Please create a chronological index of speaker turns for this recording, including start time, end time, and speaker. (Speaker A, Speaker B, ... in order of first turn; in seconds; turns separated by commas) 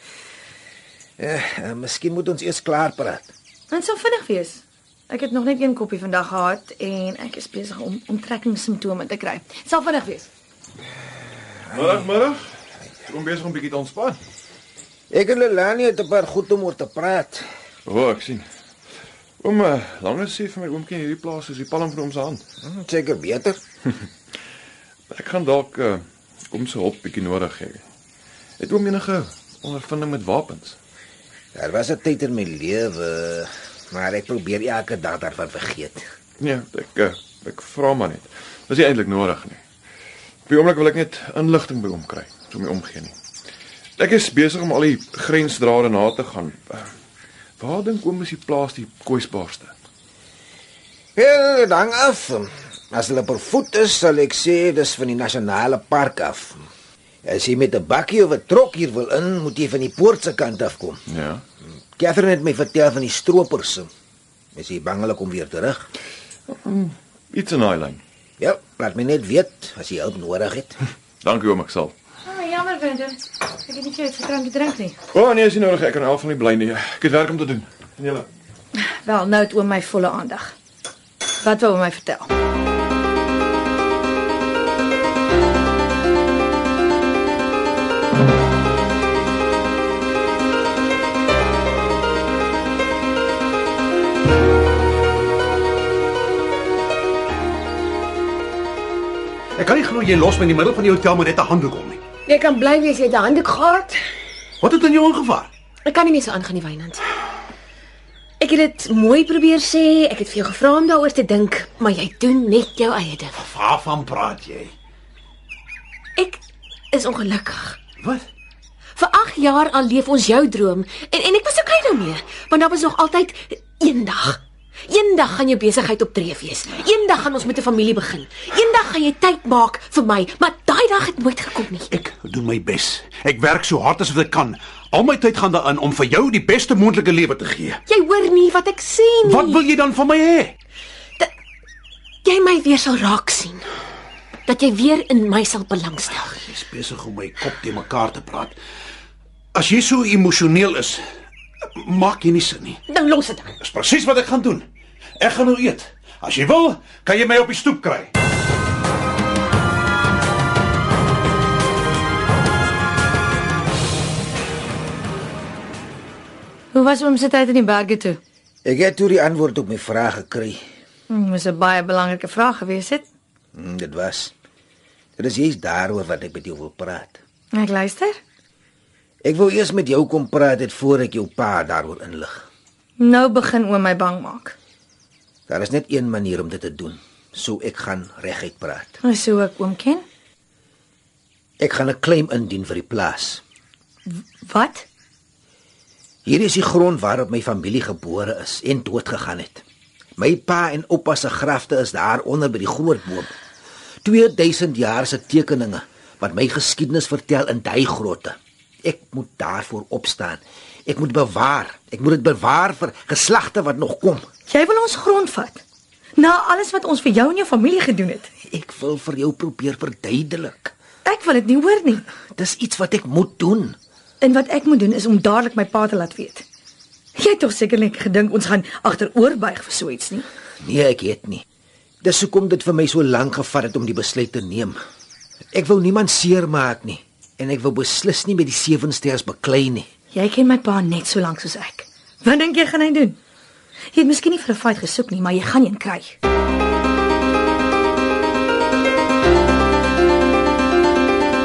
Speaker A: 1.2-3.3, Speaker B: 3.7-10.3, Speaker C: 11.7-12.5, Speaker C: 13.1-14.2, Speaker A: 15.1-17.5, Speaker C: 17.9-18.5, Speaker C: 19.4-22.4, Speaker A: 22.6-23.6, Speaker C: 25.1-27.8, Speaker C: 28.6-30.8, Speaker A: 31.5-36.0, Speaker C: 36.4-39.6, Speaker C: 40.5-43.2, Speaker C: 44.0-46.9, Speaker C: 47.6-49.7, Speaker A: 51.2-56.6, Speaker A: 57.2-61.0, Speaker C: 61.1-61.4, Speaker A: 61.7-63.9, Speaker A: 64.5-65.9, Speaker C: 66.5-68.0, Speaker A: 68.4-70.8, Speaker C: 71.2-72.0, Speaker B: 72.2-75.0, Speaker C: 75.1-78.3, Speaker B: 78.8-80.5, Speaker B: 81.4-82.3, Speaker D: 99.6-102.0, Speaker E: 102.3-104.0, Speaker D: 104.6-105.5, Speaker E: 105.8-107.0, Speaker E: 108.4-113.3, Speaker D: 113.4-114.7, Speaker E: 116.9-117.8, Speaker E: 119.0-131.9, Speaker D: 131.9-137.8, Speaker E: 137.9-139.6, Speaker D: 139.2-140.5, Speaker E: 142.2-143.7, Speaker E: 144.5-146.3, Speaker D: 146.4-148.6, Speaker D: 149.5-151.0, Speaker D: 151.8-152.8, Speaker E: 152.9-153.5, Speaker D: 153.6-154.7, Speaker D: 155.2-158.1, Speaker B: 166.7-168.2, Speaker A: 168.7-170.6, Speaker B: 171.1-173.0, Speaker A: 173.5-174.3, Speaker A: 175.2-177.2, Speaker B: 177.5-178.2, Speaker A: 179.2-182.5, Speaker B: 183.0-184.6, Speaker A: 185.5-189.0, Speaker B: 189.0-190.0, Speaker A: 191.6-193.4, Speaker B: 194.1-194.9, Speaker A: 196.2-199.6, Speaker A: 200.2-203.3, Speaker A: 204.0-214.3, Speaker B: 214.5-215.6, Speaker B: 216.2-218.3, Speaker A: 218.5-220.7, Speaker B: 221.1-222.1, Speaker A: 222.3-223.8, Speaker B: 224.2-226.4, Speaker B: 227.2-230.3, Speaker A: 230.6-231.4, Speaker A: 232.0-234.8, Speaker A: 235.5-239.9, Speaker B: 240.1-243.2, Speaker B: 243.9-246.2